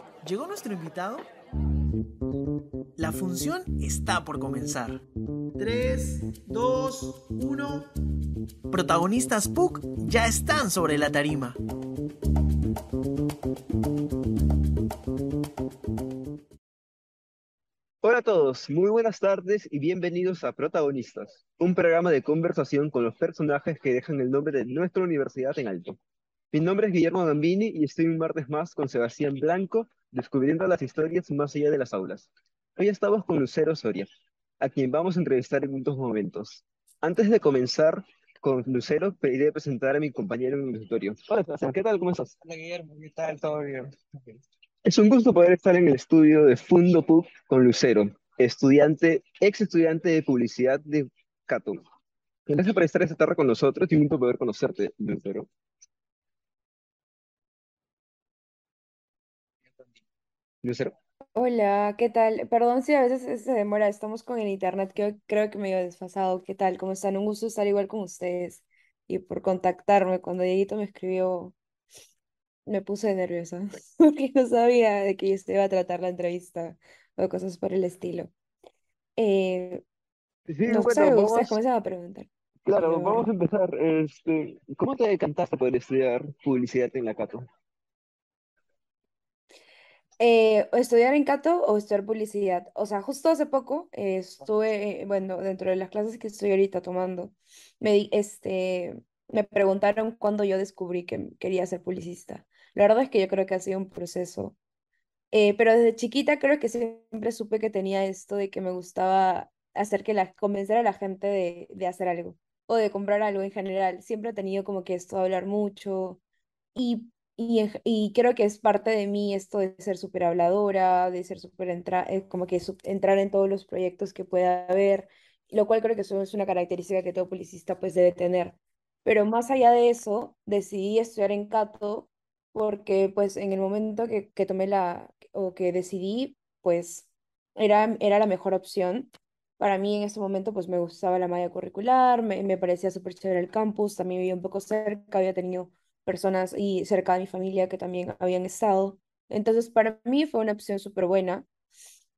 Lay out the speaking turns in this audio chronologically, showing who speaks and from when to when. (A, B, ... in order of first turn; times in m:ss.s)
0:00.2-0:01.3 A
0:03.0-0:05.0 A
0:05.6-0:07.9 A
0:08.7-0:11.6 A
0:18.0-0:26.0 B
0:26.5-0:34.1 B
0:34.6-0:42.3 B
0:42.4-0:44.4 C
0:44.8-0:51.8 B
0:52.5-0:55.5 B
1:00.6-1:01.0 B
1:01.3-1:11.5 D
1:12.6-1:18.3 D
1:19.2-1:19.8 D
1:20.5-1:21.6 B
1:20.6-1:23.3 D
1:22.6-1:27.5 B
1:30.2-1:44.6 D
1:45.3-1:56.2 D
1:56.7-2:31.4 D